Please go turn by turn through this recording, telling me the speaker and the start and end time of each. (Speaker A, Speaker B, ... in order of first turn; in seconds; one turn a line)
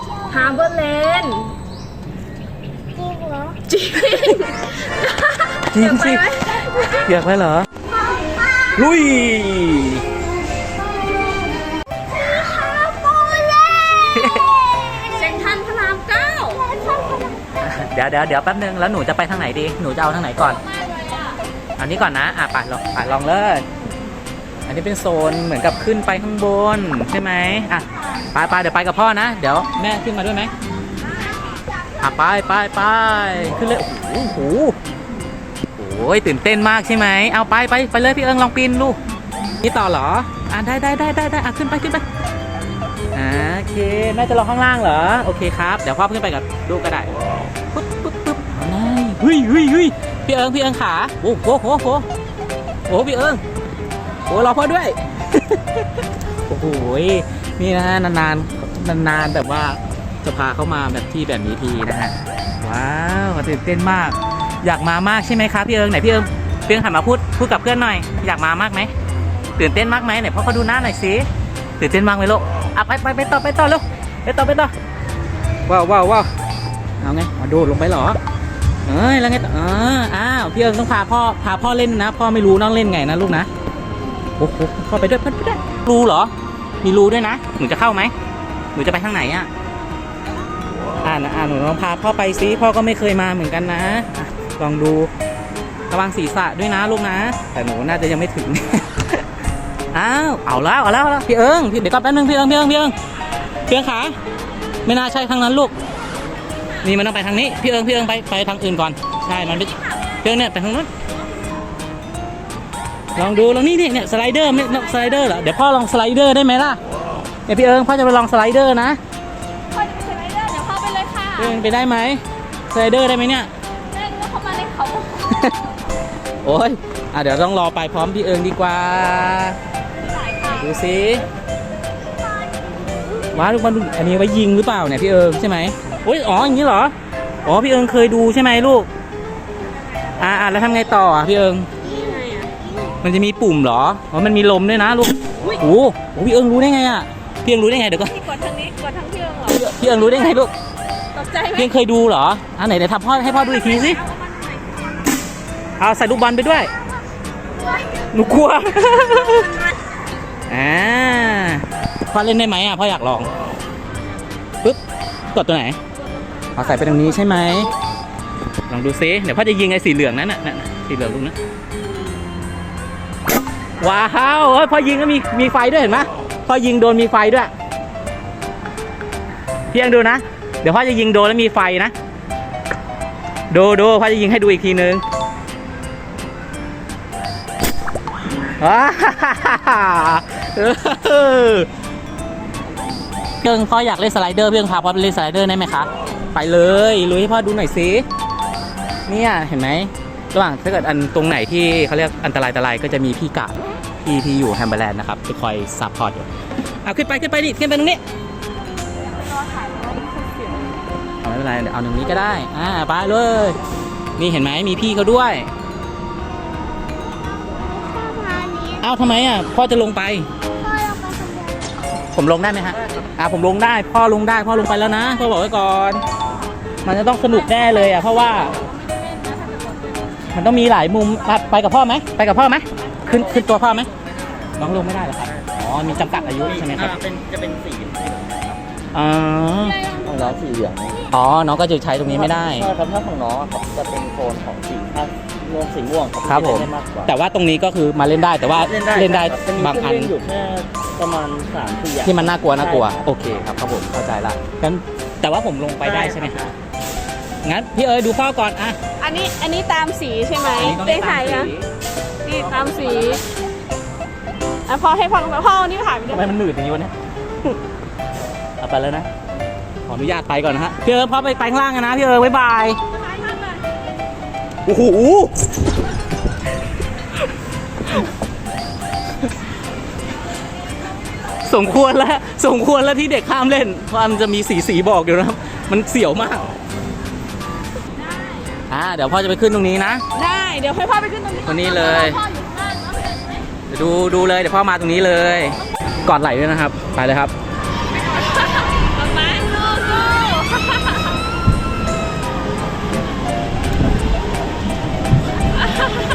Speaker A: 0.3-0.8
Speaker B: 0.3-1.5
Speaker A: 2.9-4.7
Speaker B: 3.7-4.6
Speaker C: 5.6-7.7
Speaker B: 5.8-7.0
Speaker A: 8.5-8.7
Speaker C: 8.7-10.0
Speaker A: 12.2-14.1
Speaker C: 14.1-14.4
Speaker B: 15.1-16.6
Speaker A: 16.7-17.2
Speaker C: 17.6-20.6
Speaker B: 20.8-21.1
Speaker C: 21.8-23.6
Speaker C: 24.6-30.5
Speaker C: 32.0-34.7
Speaker C: 35.8-39.0
Speaker C: 39.6-42.0
Speaker C: 43.1-47.1
Speaker C: 47.7-52.0
Speaker C: 52.9-53.4
Speaker C: 54.3-55.6
Speaker C: 56.5-68.9
Speaker C: 69.5-71.3
Speaker C: 71.8-74.7
Speaker C: 75.7-76.3
Speaker C: 77.0-78.2
Speaker C: 78.8-83.5
Speaker C: 84.4-88.1
Speaker C: 88.7-89.5
Speaker C: 91.0-95.1
Speaker C: 95.9-99.2
Speaker C: 99.9-103.0
Speaker C: 103.7-104.2
Speaker C: 104.8-105.7
Speaker C: 106.8-110.9
Speaker C: 113.1-116.8
Speaker C: 117.5-119.0
Speaker B: 119.7-121.6
Speaker C: 121.3-123.5
Speaker B: 123.9-125.5
Speaker C: 125.3-125.5
Speaker C: 126.4-129.6
Speaker B: 130.0-130.7
Speaker C: 130.5-131.2
Speaker C: 133.3-138.9
Speaker C: 140.2-141.7
Speaker B: 141.8-142.5
Speaker C: 143.0-148.2
Speaker B: 148.0-149.7
Speaker C: 149.5-150.5
Speaker B: 151.1-151.7
Speaker C: 151.5-154.0
Speaker B: 153.5-154.6
Speaker C: 155.8-156.7
Speaker C: 158.1-159.5
Speaker C: 160.5-163.3
Speaker C: 165.3-165.8
Speaker C: 166.5-167.7
Speaker C: 168.7-171.3
Speaker C: 173.8-177.5
Speaker C: 179.7-181.9
Speaker C: 183.5-185.0
Speaker C: 188.6-191.7
Speaker C: 193.4-198.1
Speaker C: 199.1-206.3
Speaker C: 206.8-208.0
Speaker B: 209.4-210.0
Speaker C: 211.2-213.6
Speaker C: 214.2-215.5
Speaker A: 217.4-218.8
Speaker C: 218.8-220.3
Speaker A: 220.6-221.8
Speaker C: 222.1-226.0
Speaker C: 226.8-228.5
Speaker C: 230.3-233.9
Speaker C: 234.6-237.0
Speaker D: 236.4-238.6
Speaker C: 238.9-239.8
Speaker D: 240.0-241.0
Speaker C: 241.1-242.7
Speaker D: 242.1-247.1
Speaker C: 246.2-250.1
Speaker D: 248.5-253.1
Speaker C: 252.0-256.4
Speaker D: 255.8-256.5
Speaker C: 257.4-258.8
Speaker B: 259.0-261.5
Speaker C: 260.5-261.7
Speaker B: 262.2-263.2
Speaker C: 262.4-263.2
Speaker B: 264.7-266.3
Speaker C: 266.1-266.9
Speaker C: 268.6-269.1
Speaker C: 269.9-272.8
Speaker B: 273.0-273.6
Speaker C: 274.6-275.5
Speaker C: 281.4-286.4
Speaker C: 288.7-290.0
Speaker B: 290.1-293.3
Speaker C: 291.4-292.2
Speaker C: 293.7-297.3
Speaker B: 298.6-301.0